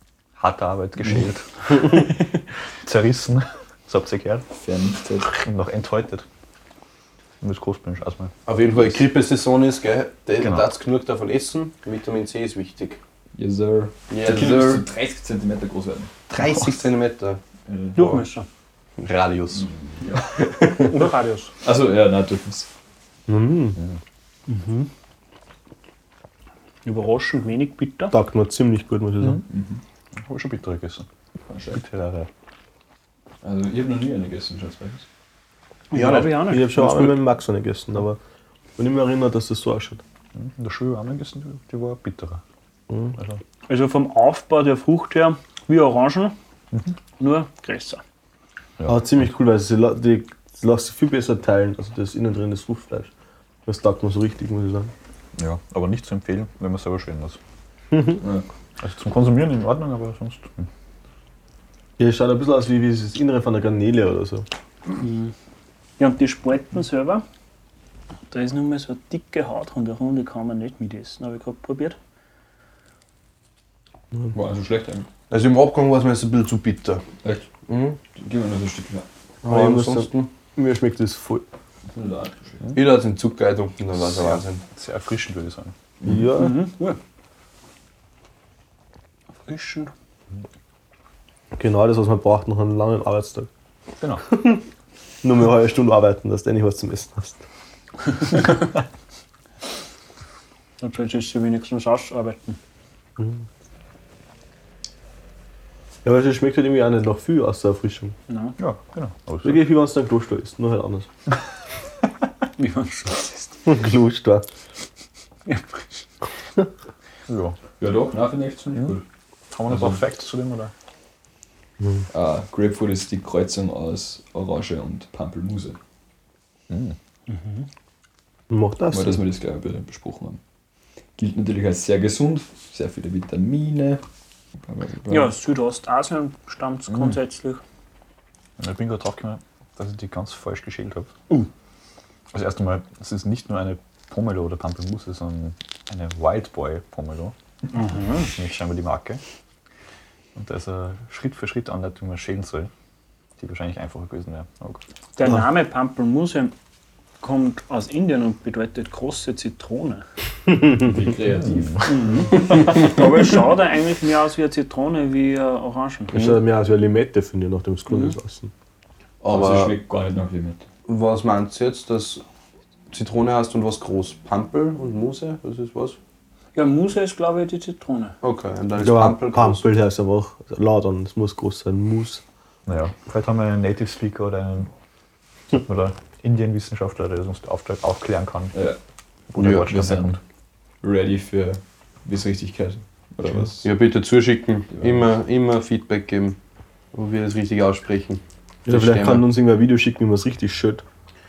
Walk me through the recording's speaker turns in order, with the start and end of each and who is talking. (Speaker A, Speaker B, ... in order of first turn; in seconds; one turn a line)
Speaker A: 0.4-2.1
Speaker A: 2.8-4.5
Speaker B: 4.5-5.4
Speaker A: 5.3-6.2
Speaker A: 7.4-8.3
Speaker C: 8.5-13.0
Speaker A: 10.4-10.7
Speaker B: 13.4-16.1
Speaker C: 14.1-14.8
Speaker C: 16.3-17.4
Speaker B: 17.7-18.2
Speaker D: 17.9-18.5
Speaker C: 19.0-19.7
Speaker B: 20.0-20.2
Speaker C: 20.3-20.9
Speaker D: 20.8-21.5
Speaker B: 21.6-22.7
Speaker E: 23.3-23.8
Speaker D: 24.5-24.9
Speaker D: 26.9-28.1
Speaker E: 28.1-29.4
Speaker B: 29.5-29.8
Speaker A: 30.2-31.1
Speaker B: 31.5-31.8
Speaker A: 31.7-32.3
Speaker B: 33.4-35.1
Speaker D: 35.9-36.9
Speaker C: 35.9-37.2
Speaker E: 36.4-38.2
Speaker E: 38.8-40.0
Speaker A: 40.4-42.4
Speaker D: 43.7-46.4
Speaker D: 47.2-48.0
Speaker A: 48.8-49.2
Speaker E: 48.9-53.1
Speaker E: 53.7-54.9
Speaker A: 55.4-57.4
Speaker B: 58.2-58.5
Speaker A: 58.8-60.7
Speaker E: 62.0-64.5
Speaker D: 65.0-65.3
Speaker D: 66.0-67.2
Speaker D: 68.3-72.0
Speaker B: 74.3-75.1
Speaker C: 75.3-77.0
Speaker C: 77.7-78.0
Speaker B: 78.2-79.1
Speaker E: 79.4-81.5
Speaker C: 79.5-80.3
Speaker B: 81.9-82.8
Speaker C: 82.7-84.6
Speaker A: 84.1-85.7
Speaker E: 86.0-86.6
Speaker D: 86.3-87.0
Speaker D: 89.5-89.9
Speaker E: 91.5-93.5
Speaker A: 94.0-94.3
Speaker E: 95.2-97.4
Speaker D: 100.8-102.6
Speaker E: 106.0-108.2
Speaker D: 108.3-108.6
Speaker A: 108.6-109.7
Speaker E: 109.4-111.1
Speaker D: 112.6-113.6
Speaker E: 113.7-114.5
Speaker D: 115.5-115.8
Speaker A: 117.3-117.6
Speaker B: 117.8-119.0
Speaker A: 119.5-120.7
Speaker B: 119.7-120.0
Speaker B: 122.1-125.8
Speaker A: 126.7-127.0
Speaker D: 127.3-127.7
Speaker E: 128.5-129.2
Speaker B: 128.9-130.4
Speaker B: 131.2-134.0
Speaker B: 134.7-135.3
Speaker D: 135.1-137.6
Speaker A: 138.6-141.1
Speaker A: 142.3-147.3
Speaker D: 147.7-148.3
Speaker A: 148.3-149.2
Speaker A: 150.3-152.7
Speaker A: 153.4-154.8
Speaker D: 155.2-156.5
Speaker D: 157.2-160.1
Speaker B: 160.8-162.0
Speaker A: 161.4-161.8
Speaker D: 161.9-166.2
Speaker E: 166.1-168.5
Speaker D: 167.9-168.2
Speaker C: 169.2-169.8
Speaker B: 169.3-170.7
Speaker C: 170.9-172.2
Speaker C: 172.9-176.0
Speaker D: 176.6-178.2
Speaker C: 178.2-179.7
Speaker E: 178.8-182.2
Speaker A: 182.7-184.7
Speaker A: 185.5-188.6
Speaker A: 189.3-190.2
Speaker C: 189.4-189.7
Speaker B: 189.7-190.2
Speaker B: 190.8-193.7
Speaker C: 193.6-196.4
Speaker B: 194.8-195.1
Speaker C: 196.9-199.3
Speaker E: 198.7-200.8